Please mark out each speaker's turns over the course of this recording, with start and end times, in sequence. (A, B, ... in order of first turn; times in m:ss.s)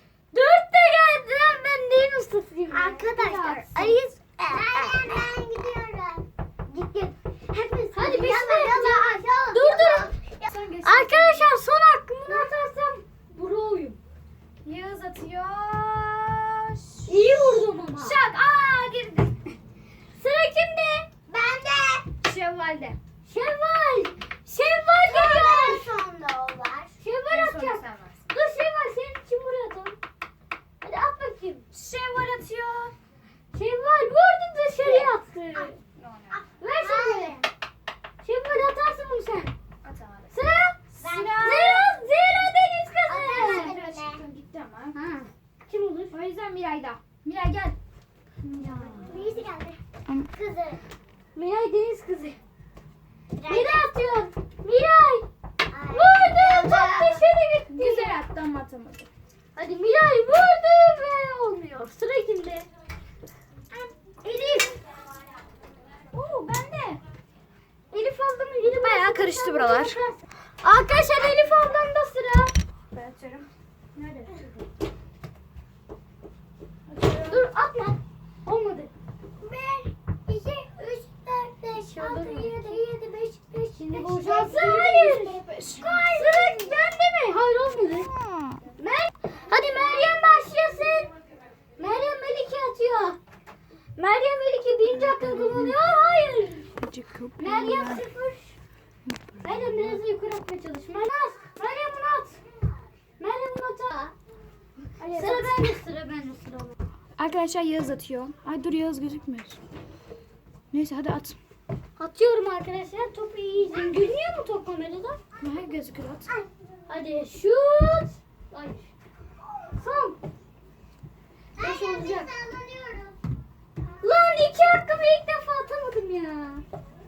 0:00.3-0:05.0 A
0:02.7-0:06.2 B
0:06.7-0:07.1 A
0:07.5-0:10.5 B
0:07.9-0:10.1 A
0:10.4-0:11.5 C
0:10.8-0:14.0 A
0:14.6-0:19.5 C
0:17.0-0:18.2 A
0:20.2-0:21.1 A
0:21.3-0:22.1 B
0:22.2-0:23.0 C
0:23.2-0:25.9 A
0:25.0-0:26.9 B
0:27.0-0:30.0 A
0:27.3-0:28.2 C
0:30.8-0:31.6 A
0:31.7-0:32.9 C
0:33.5-0:35.8 A
0:34.8-0:35.7 B
0:36.0-0:36.4 C
0:36.3-0:37.5 B
0:36.6-0:37.4 A
0:38.2-0:39.5 A
0:39.8-0:40.3 C
0:40.3-0:40.8 A
0:40.9-0:42.0 C
0:41.0-0:41.7 B
0:41.3-0:43.8 A
0:43.1-0:44.2 B
0:43.2-0:45.0 C
0:45.0-0:45.2 B
0:45.0-0:46.1 A
0:46.1-0:47.8 C
0:48.4-0:49.2 C
0:48.5-0:49.2 A
0:49.0-0:49.8 B
0:50.3-0:50.8 B
0:51.3-0:52.4 A
0:53.4-0:53.9 B
0:53.5-0:55.3 A
0:55.7-0:57.3 B
0:55.9-0:58.2 A
0:57.7-0:59.1 C
0:59.6-1:02.6 A
1:04.2-1:04.8 A
1:06.1-1:07.0 C
1:07.9-1:12.5 A
1:08.7-1:10.0 C
1:12.9-1:14.4 C
1:14.0-1:14.4 A
1:16.9-1:17.4 C
1:17.3-1:18.9 A
1:19.4-1:24.6 B
1:21.7-1:22.5 A
1:23.8-1:28.1 A
1:24.0-1:26.7 C
1:27.9-1:28.6 C
1:28.8-1:31.1 A
1:31.8-1:33.2 A
1:34.0-1:36.7 A
1:34.9-1:35.7 C
1:36.8-1:38.0 C
1:37.4-1:38.6 A
1:39.0-1:40.0 C
1:39.4-1:42.4 A
1:43.2-1:44.1 A
1:45.0-1:45.7 C
1:45.1-1:46.8 A
1:47.2-1:49.6 C
1:50.7-1:51.4 C
1:52.0-1:55.2 A
1:55.4-1:56.3 C
1:56.9-1:58.9 A
1:59.7-2:00.2 A
2:01.6-2:03.2 B
2:01.6-2:02.3 A
2:04.0-2:06.6 A